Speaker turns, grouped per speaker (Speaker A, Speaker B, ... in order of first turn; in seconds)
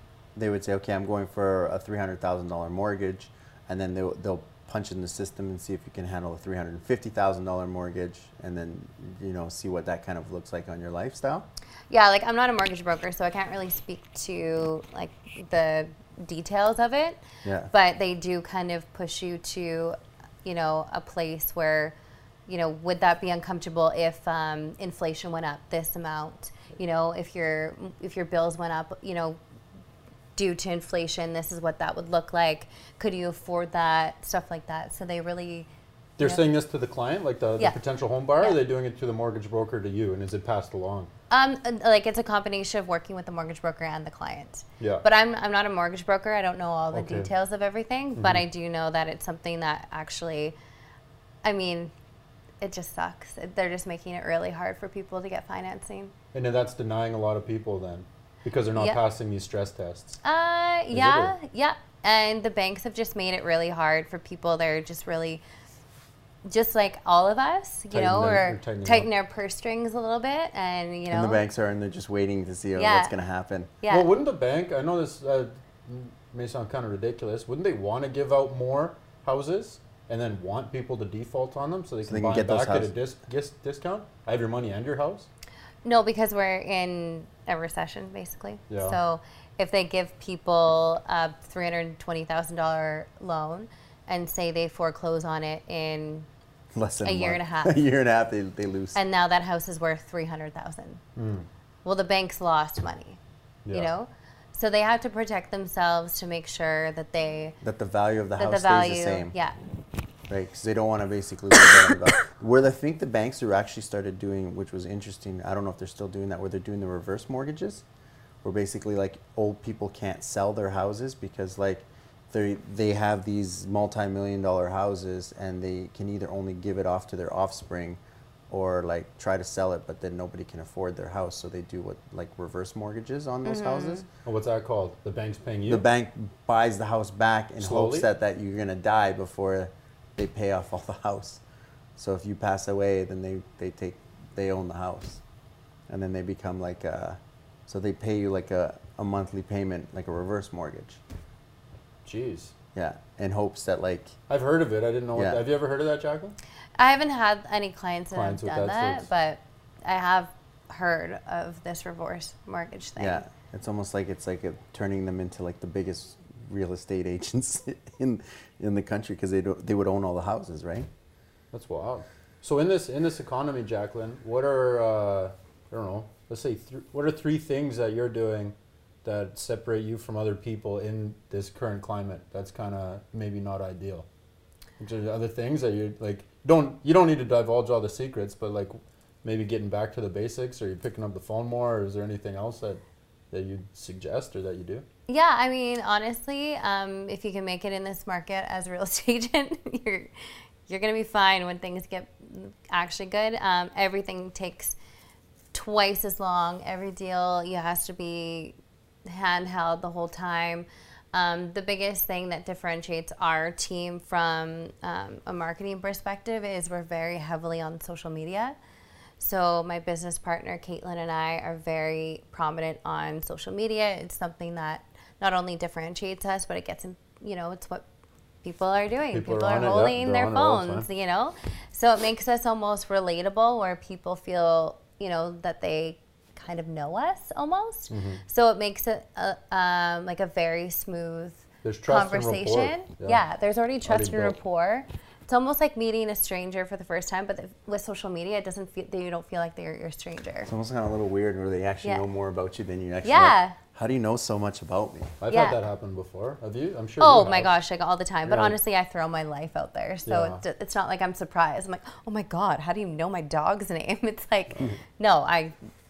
Speaker A: 0.4-11.5, 17.4-17.7, 71.1-73.8, 82.1-82.9, 96.7-99.0, 107.6-109.3, 110.3-117.8, 118.4-134.1, 135.7-141.4, 142.0-145.2, 145.9-151.0, 152.8-154.2, 155.2-155.4, 163.0-170.9, 250.5-255.2
Speaker B: 11.9-21.9, 22.5-29.4, 30.4-35.7, 41.3-50.5, 51.4-51.9, 52.6-56.1, 60.2-65.4, 66.5-71.4, 72.8-73.2, 73.8-74.1, 85.8-96.3, 97.0-97.8, 99.0-101.0, 101.8-103.2, 103.7-107.6, 108.4-109.5, 133.4-134.0, 156.8-163.2, 195.1-200.1, 200.7-204.8, 205.5-218.6, 219.2-227.9, 228.4-250.5, 253.0-253.6, 255.3-255.6, 257.0-265.6
Speaker C: 36.2-41.1, 44.8-45.0, 46.9-47.3, 48.2-48.4, 56.3-60.2, 60.9-61.3, 67.9-69.1, 73.9-85.3, 88.7-89.0, 101.2-101.5, 103.7-103.9, 134.2-135.8, 137.6-138.1, 152.1-152.5, 154.3-156.4, 158.1-159.1, 171.5-184.1, 184.8-194.8, 229.1-230.9, 237.9-238.2, 241.6-243.2, 243.8-244.4, 255.2-257.6, 258.3-258.6, 260.1-260.4